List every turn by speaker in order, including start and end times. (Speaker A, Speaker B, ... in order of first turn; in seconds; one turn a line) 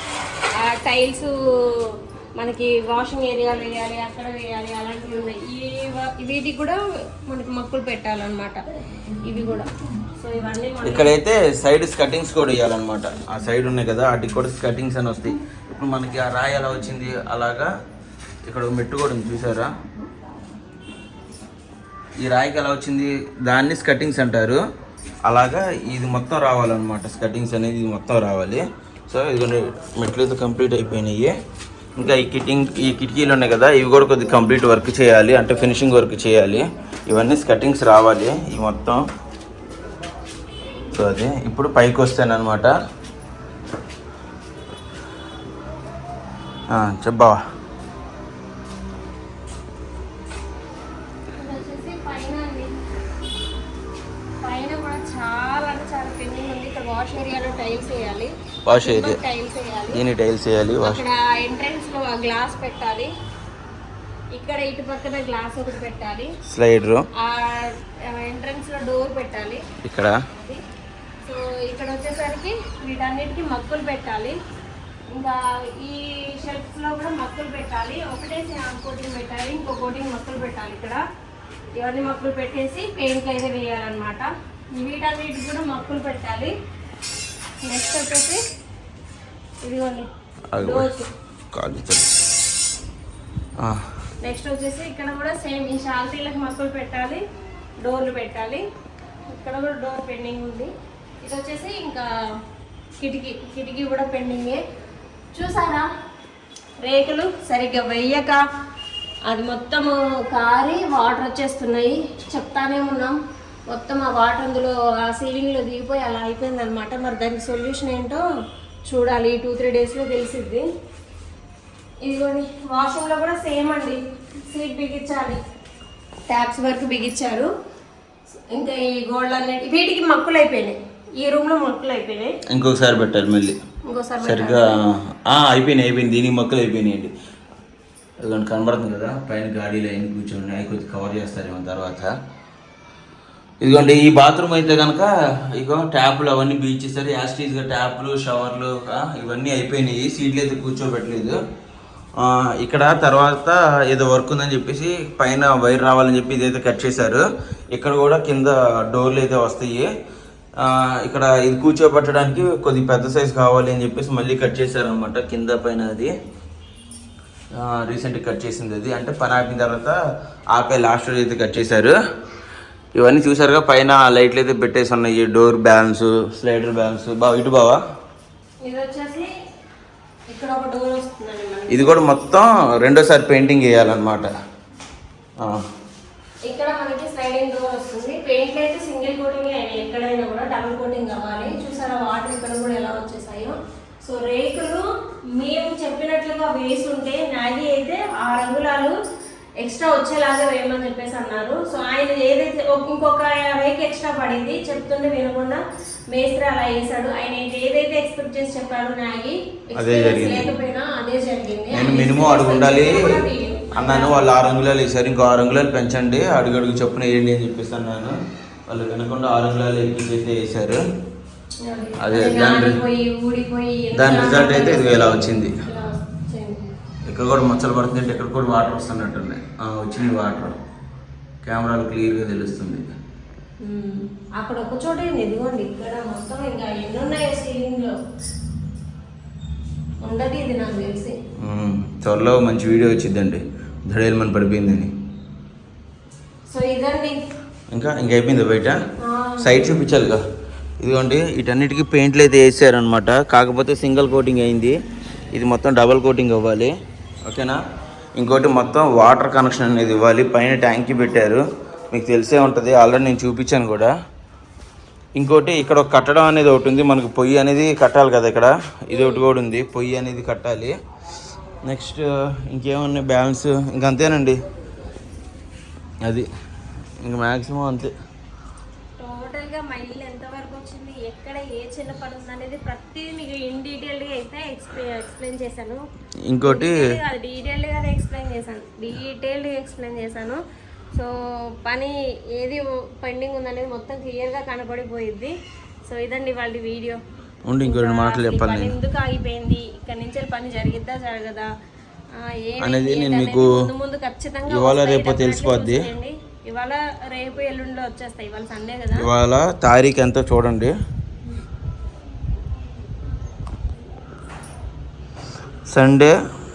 Speaker A: 0.6-8.6
Speaker A: 9.2-11.1
Speaker B: 10.8-17.7
Speaker B: 18.4-19.7
Speaker B: 22.2-24.6
Speaker B: 25.2-31.3
Speaker B: 32.0-39.0
Speaker B: 40.9-42.7
Speaker B: 46.7-47.4
Speaker A: 51.4-52.7
Speaker A: 54.4-60.0
Speaker B: 58.7-59.2
Speaker B: 59.9-61.0
Speaker A: 60.8-63.1
Speaker A: 64.3-66.3
Speaker B: 66.5-67.0
Speaker A: 67.2-69.6
Speaker B: 69.8-70.2
Speaker A: 70.4-70.6
Speaker A: 71.2-74.4
Speaker A: 75.1-81.0
Speaker A: 81.8-86.5
Speaker A: 87.6-88.4
Speaker A: 89.6-91.1
Speaker B: 90.5-90.9
Speaker B: 91.5-92.2
Speaker B: 93.6-93.9
Speaker A: 94.2-97.2
Speaker A: 97.8-98.7
Speaker A: 99.3-100.7
Speaker A: 101.2-102.1
Speaker A: 103.0-104.6
Speaker A: 105.3-105.9
Speaker A: 106.8-108.4
Speaker A: 109.3-113.2
Speaker A: 113.7-118.2
Speaker A: 118.9-120.7
Speaker A: 122.0-124.0
Speaker A: 124.5-125.4
Speaker A: 126.3-127.5
Speaker A: 128.5-132.3
Speaker B: 132.5-133.6
Speaker A: 133.9-134.8
Speaker B: 134.2-137.1
Speaker B: 138.2-142.1
Speaker B: 143.6-151.4
Speaker B: 152.2-159.9
Speaker B: 160.6-166.1
Speaker B: 167.5-170.0
Speaker B: 170.5-172.0
Speaker B: 172.9-177.8
Speaker A: 178.6-179.3
Speaker A: 180.3-182.1
Speaker B: 181.7-184.3
Speaker B: 185.4-185.6
Speaker A: 186.5-199.0
Speaker A: 199.6-214.2
Speaker B: 209.8-210.5
Speaker B: 211.7-213.2
Speaker B: 213.7-218.2
Speaker B: 218.7-220.8
Speaker A: 221.6-226.6
Speaker B: 222.0-222.8
Speaker B: 223.9-225.5
Speaker B: 227.1-230.5
Speaker B: 231.4-232.9
Speaker A: 233.6-237.9
Speaker A: 240.0-241.1
Speaker B: 241.4-244.9
Speaker A: 246.5-247.2
Speaker B: 247.7-248.8
Speaker A: 249.0-249.7
Speaker B: 249.4-250.2
Speaker B: 250.8-254.8
Speaker B: 255.3-256.7
Speaker B: 257.2-257.6
Speaker B: 258.1-263.9
Speaker B: 265.2-270.8
Speaker A: 268.9-269.2
Speaker B: 271.6-274.4
Speaker B: 276.0-276.3
Speaker B: 277.0-277.9
Speaker A: 279.0-285.8
Speaker B: 286.3-286.9
Speaker A: 286.4-290.4
Speaker A: 291.6-295.3
Speaker A: 295.9-297.0
Speaker B: 297.5-298.8
Speaker A: 297.6-301.5
Speaker A: 302.2-309.1
Speaker B: 302.6-303.6
Speaker B: 304.5-305.9
Speaker B: 309.0-310.7
Speaker B: 315.7-316.1